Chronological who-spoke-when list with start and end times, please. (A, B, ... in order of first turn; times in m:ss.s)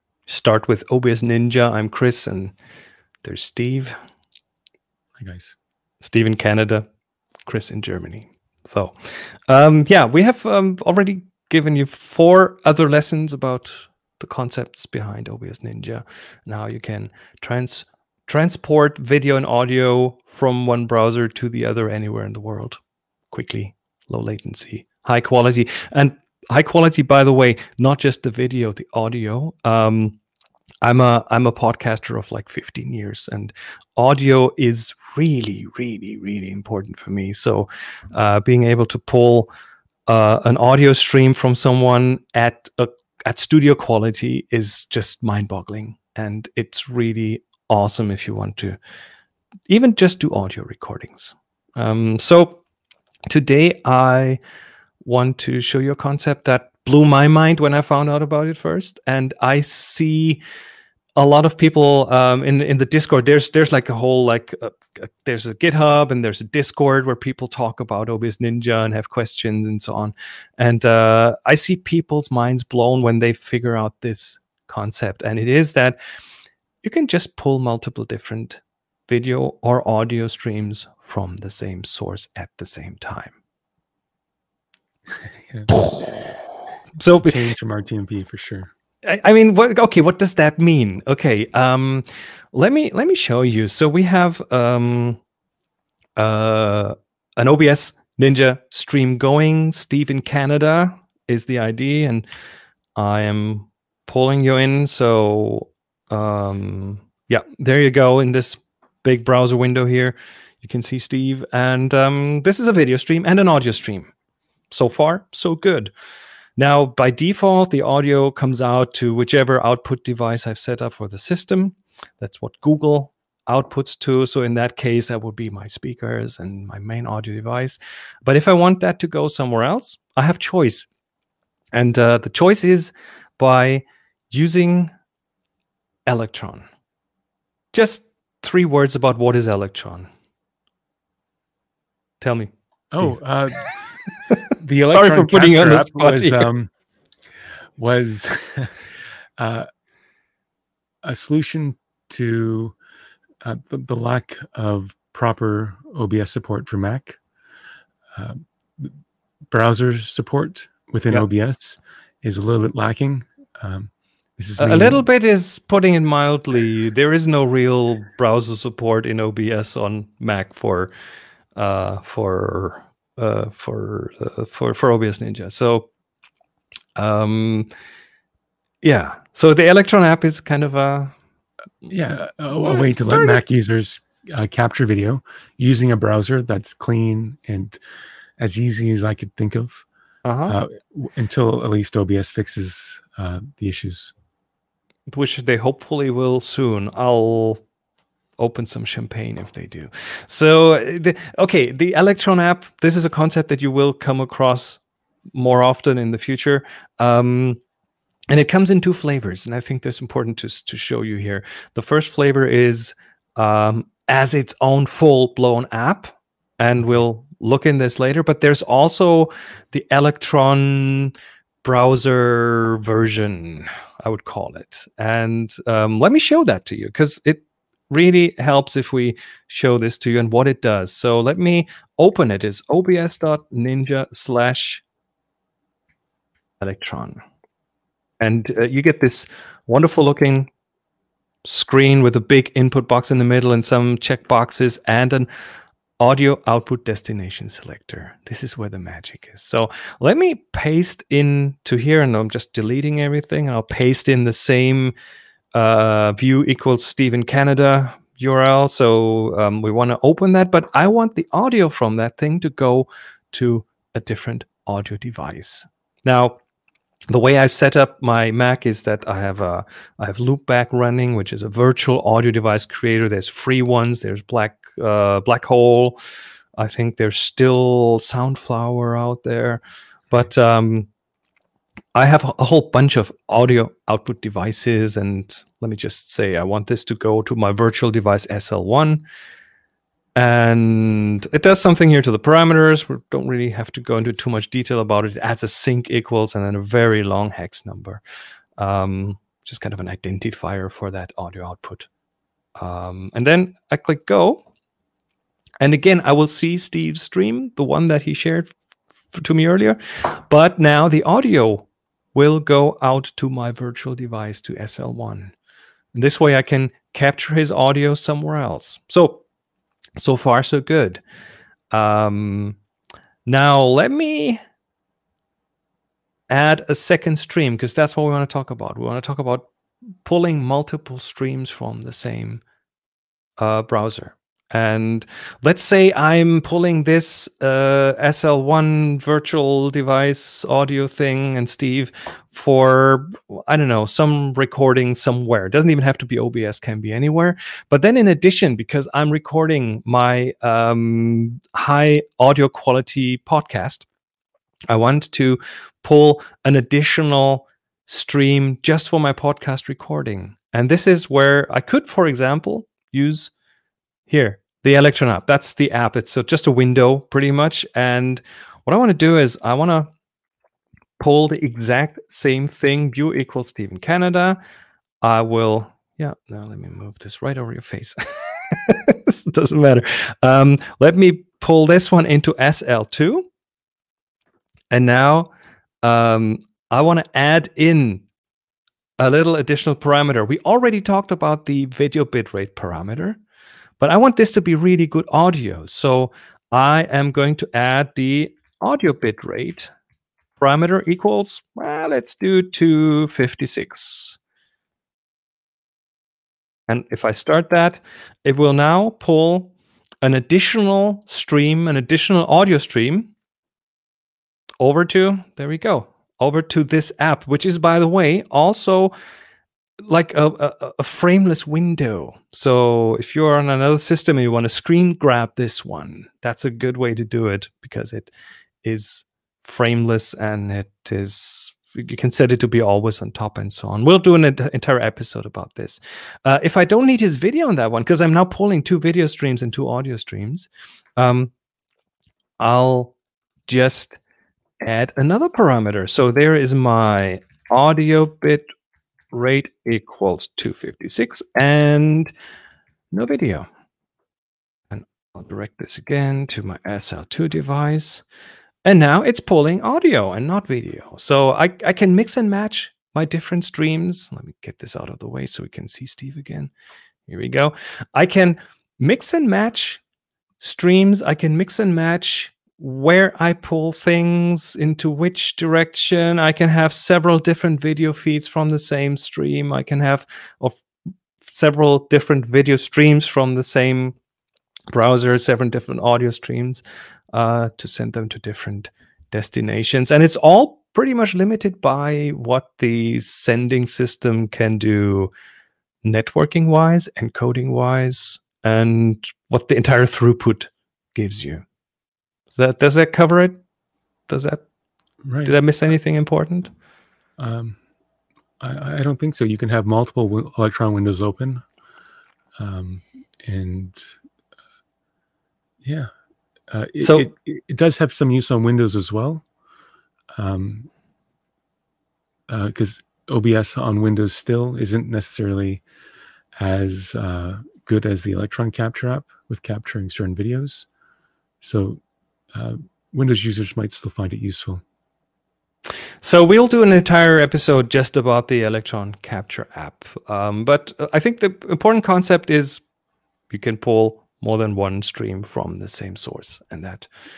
0:00.3-0:02.5 A
0:03.2-0:04.0 A
0:05.2-0:05.6 B
0:06.0-0:06.9 A
0:07.5-0:30.2 A
0:30.8-0:39.5 A
0:40.1-0:48.8 A
0:49.7-0:52.6 A
0:53.3-0:54.4 A
0:55.0-1:00.4 A
1:01.2-1:16.0 A
1:16.8-1:23.3 A
1:25.4-1:25.7 B
1:25.7-1:26.2 A
1:27.0-1:27.4 A
1:27.1-1:28.7 B
1:29.0-1:35.2 A
1:36.2-1:42.3 A
1:43.0-1:54.1 A
1:54.7-1:55.9 A
1:56.6-2:10.9 A
2:11.7-2:14.9 A
2:16.1-2:16.7 A
2:17.7-2:20.1 A
2:22.2-2:23.2 A
2:22.9-2:23.7 B
2:24.1-2:24.4 A
2:24.5-2:26.7 B
2:24.9-2:26.5 A
2:27.8-2:28.8 B
2:29.4-2:29.7 B
2:31.0-2:32.8 B
2:33.4-2:37.2 B
2:38.2-2:39.0 B
2:39.5-2:45.0 B
2:44.6-2:50.9 A
2:51.6-2:55.9 A
2:57.0-2:57.7 A
2:58.8-3:01.1 A
3:01.9-3:07.8 B
3:02.6-3:03.4 A
3:08.4-3:09.9 B
3:10.2-3:10.6 A
3:10.5-3:14.1 B
3:15.1-3:17.6 A
3:18.4-3:24.8 A
3:25.4-3:27.6 A
3:28.3-3:54.8 A
3:56.6-3:57.2 A
3:58.2-4:00.5 A
4:01.4-4:05.3 A
4:06.0-4:14.9 A
4:15.5-4:26.4 A
4:27.1-4:36.0 A
4:36.6-4:40.9 A
4:42.0-4:49.0 A
4:50.2-4:58.0 A
4:58.6-5:01.9 A
5:02.6-5:04.4 A
5:05.6-5:08.5 A
5:09.1-5:15.3 A
5:15.9-5:19.2 A
5:20.0-5:21.0 A
5:21.7-5:22.6 A
5:23.3-5:24.4 A
5:26.3-5:29.5 A
5:30.0-5:32.4 A
5:33.4-5:53.9 A
5:54.7-6:03.3 A
6:04.1-6:09.9 A
6:11.0-6:14.4 A
6:15.0-6:23.3 A
6:24.7-6:25.3 A
6:25.8-6:28.0 A
6:29.0-6:33.2 A
6:33.8-6:39.7 A
6:40.4-6:44.2 A
6:46.7-6:53.1 A
6:54.6-6:58.9 A
6:59.8-7:08.1 A
7:08.6-7:21.3 A
7:22.4-7:23.0 A
7:23.5-7:24.0 A
7:24.6-7:28.5 A
7:29.1-7:32.1 A
7:32.9-7:33.5 A
7:34.7-7:38.0 A
7:38.6-7:46.5 A
7:47.1-7:49.8 A
7:50.4-8:00.6 A
8:01.2-8:04.0 A
8:04.7-8:06.6 A
8:07.1-8:15.1 A
8:15.8-8:21.4 A
8:22.4-8:23.4 A
8:24.1-8:24.4 A
8:25.0-8:25.3 B
8:25.2-8:26.5 A
8:27.2-8:27.6 B
8:28.4-8:31.4 B
8:32.4-8:33.8 B
8:35.6-8:35.9 B
8:36.5-8:39.3 B
8:36.8-8:37.1 A
8:40.2-8:40.7 B
8:42.3-8:45.6 B
8:46.4-8:50.7 B
8:51.4-8:51.8 B
8:52.3-8:54.6 B
8:56.0-9:02.6 A
9:03.3-9:06.9 A